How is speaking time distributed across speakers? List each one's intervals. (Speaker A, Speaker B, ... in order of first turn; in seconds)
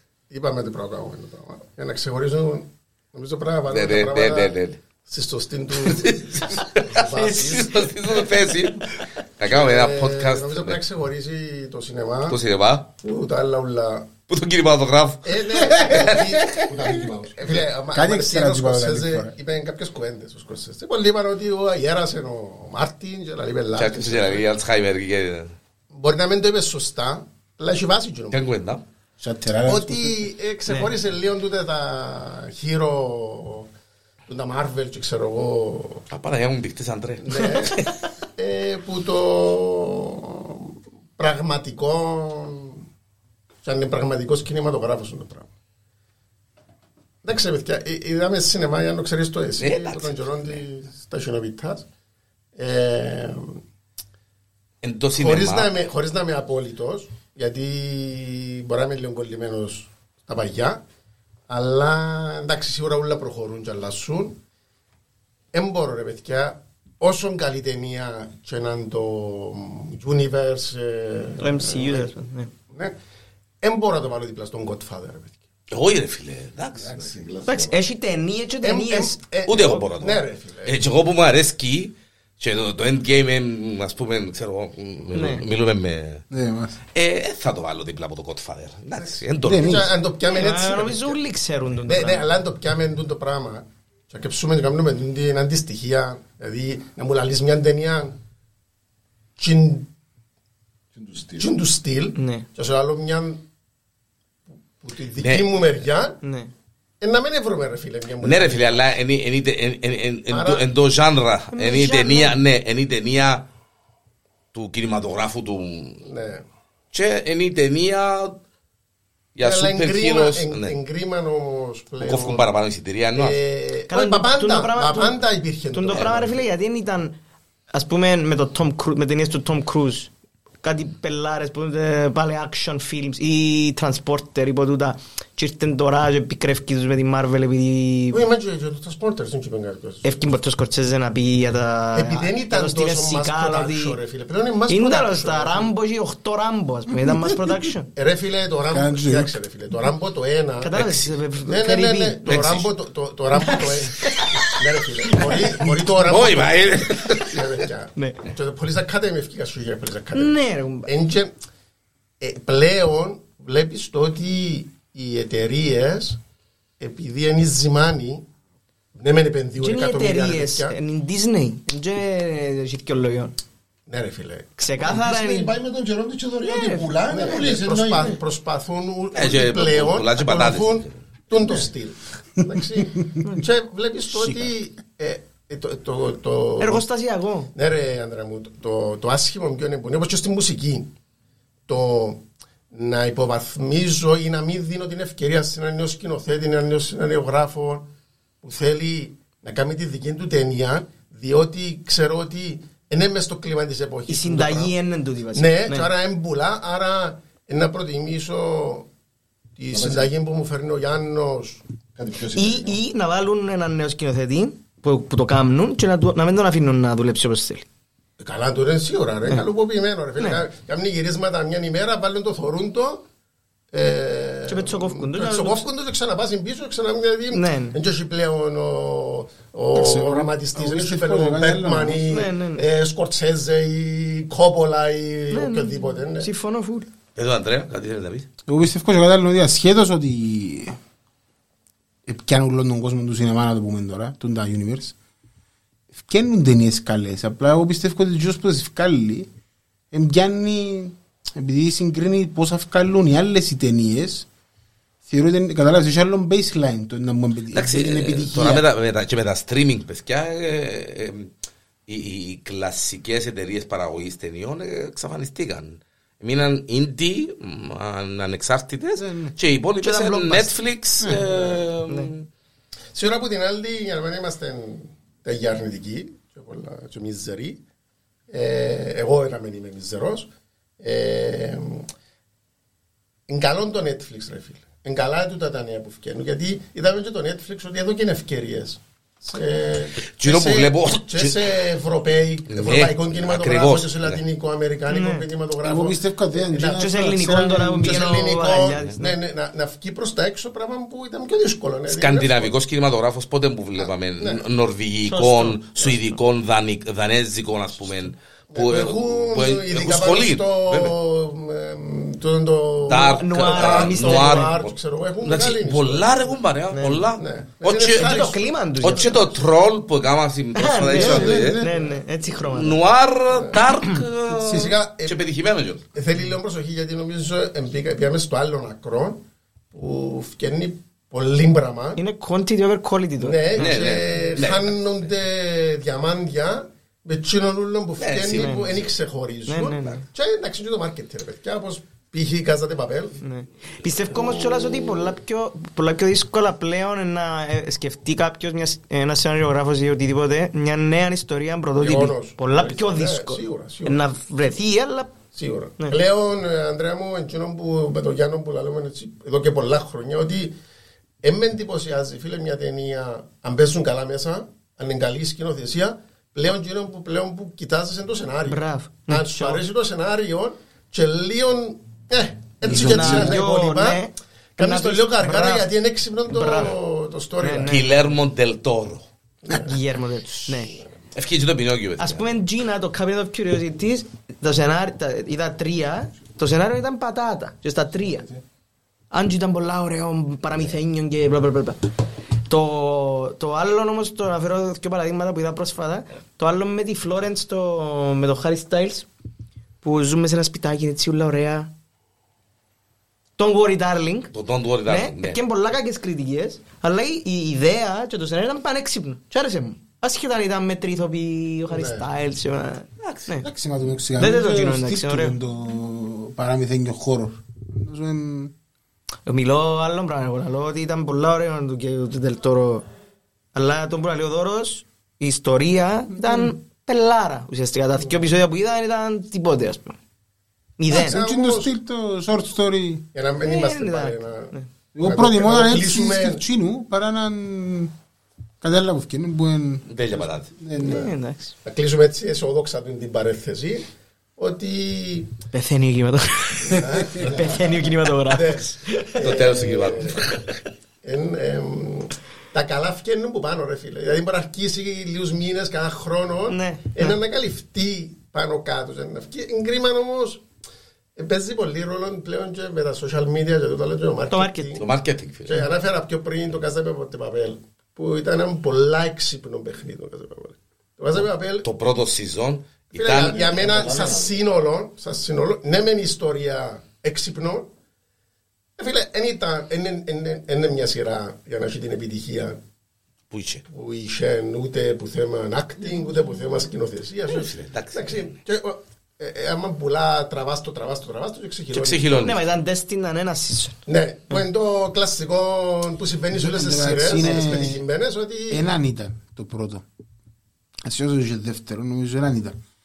Speaker A: 0.3-4.5, 5.0-7.9, 9.4-12.4, 13.0-14.1, 15.2-16.7, 17.3-24.5, 25.9-28.5, 29.6-33.7, 34.3-36.0, 37.2-37.8, 38.4-42.8, 43.6-45.5, 47.2-51.8, 52.5-53.6, 55.2-60.8, 61.5-64.4, 65.5-72.1, 72.7-73.0, 73.6-75.3, 78.6-80.8, 89.0-91.2, 91.8-98.2, 99.4-99.9, 101.4-103.4, 104.8-106.2, 107.0-108.9, 110.3-110.6, 116.0-116.5, 119.4-122.5, 123.1-126.4, 138.1-140.2, 141.9-145.7, 147.9-150.8, 151.5-161.3, 162.2-166.2, 166.8-168.2, 168.9-170.8, 173.9-174.6, 177.1-186.8, 187.5-190.9, 191.7-197.9, 198.4-204.7, 205.3-208.9, 209.6-211.6, 218.2-223.1, 223.7-236.3, 272.9-277.6, 278.3-281.9, 283.3-302.5, 303.8-304.4, 308.5-316.4, 317.1-319.3, 323.3-323.6, 324.4-325.2, 325.9-332.0, 333.2-343.2, 351.8-354.0, 355.3-360.6, 361.2-377.8, 379.4-379.8, 411.7-412.0, 430.9-431.7, 433.1-436.4, 440.8-441.1, 441.6-445.4, 446.6-447.7, 448.3-450.4, 451.0-460.4, 461.1-464.9, 465.5-471.7, 472.9-477.7, 478.8-482.6, 483.7-492.3, 493.9-498.7
Speaker B: 3.7-4.8, 5.8-10.8, 12.3-12.9, 14.3-16.3, 23.8-25.5, 28.3-28.8, 36.1-37.8, 49.6-50.6, 54.8-55.8, 75.7-77.0, 79.5-86.2, 86.9-89.9, 105.2-105.6, 108.2-113.5, 114.5-116.0, 116.9-118.4, 119.3-120.7, 122.0-123.4, 150.7-151.1, 152.2-152.7, 156.0-157.7, 179.1-180.9, 237.2-238.3, 257.5-261.3, 261.9-272.2, 290.0-291.6, 292.5-294.2, 301.9-310.9, 312.9-321.6, 322.5-325.8, 333.5-334.8, 338.0-338.9, 344.2-344.8, 377.6-379.1, 381.1-382.2, 404.3-405.4, 413.0-413.3, 439.9-440.5, 449.2-450.4, 464.8-465.7, 471.1-473.5, 483.3-483.6, 487.3-488.3, 491.7-492.4
Speaker C: 7.0-7.7, 30.7-30.9, 37.4-37.9, 71.4-72.5, 77.5-79.2, 85.1-85.4, 90.3-92.3, 102.2-102.5, 106.2-106.5, 111.5-112.4, 123.9-125.2, 125.7-127.1, 127.7-130.1, 130.6-138.2, 140.0-144.0, 144.7-147.9, 150.6-152.4, 153.4-154.3, 155.1-155.4, 157.9-158.2, 160.1-160.9, 169.6-173.3, 174.6-175.5, 176.4-176.9, 186.6-187.5, 204.1-205.9, 212.3-217.7, 220.2-220.4, 224.5-225.7, 227.3-227.8, 232.1-232.7, 235.3-236.9, 269.8-270.5, 271.9-272.1, 294.9-295.2, 296.7-299.2, 305.1-306.0, 312.9-314.5, 316.7-317.1, 317.9-319.2, 320.5-322.8, 332.0-333.9, 338.3-338.7, 339.5-340.0, 343.2-355.2, 368.4-369.6, 372.7-375.7, 376.3-376.8, 377.4-378.1, 379.5-380.8, 382.0-388.2, 389.1-391.9, 392.5-399.1, 399.8-401.7, 403.4-404.3, 404.9-413.5, 414.2-415.4, 419.2-422.9, 423.5-430.0, 430.8-431.2, 433.4-434.7, 440.8-441.5, 445.5-449.4, 456.5-457.2, 464.3-464.8, 492.1-493.8
Speaker D: 15.8-16.7, 17.9-19.3, 29.2-30.2, 86.3-86.8, 89.4-89.9, 148.7-149.3, 184.1-184.5, 229.7-232.0, 238.5-240.8, 242.1-244.9, 245.9-249.3, 249.9-254.3, 255.0-258.6, 269.0-269.3, 295.6-297.9, 320.9-321.8, 372.6-373.4, 413.4-418.5, 426.1-426.5, 430.9-433.1, 434.9-437.9, 438.6-441.1, 496.3-497.8, 498.5-499.8, 500.8-502.6
Speaker E: 16.6-17.7, 76.8-77.8, 100.9-101.5, 174.8-178.2, 181.3-181.7, 209.7-210.1, 211.9-212.8, 447.2-447.6, 473.2-474.4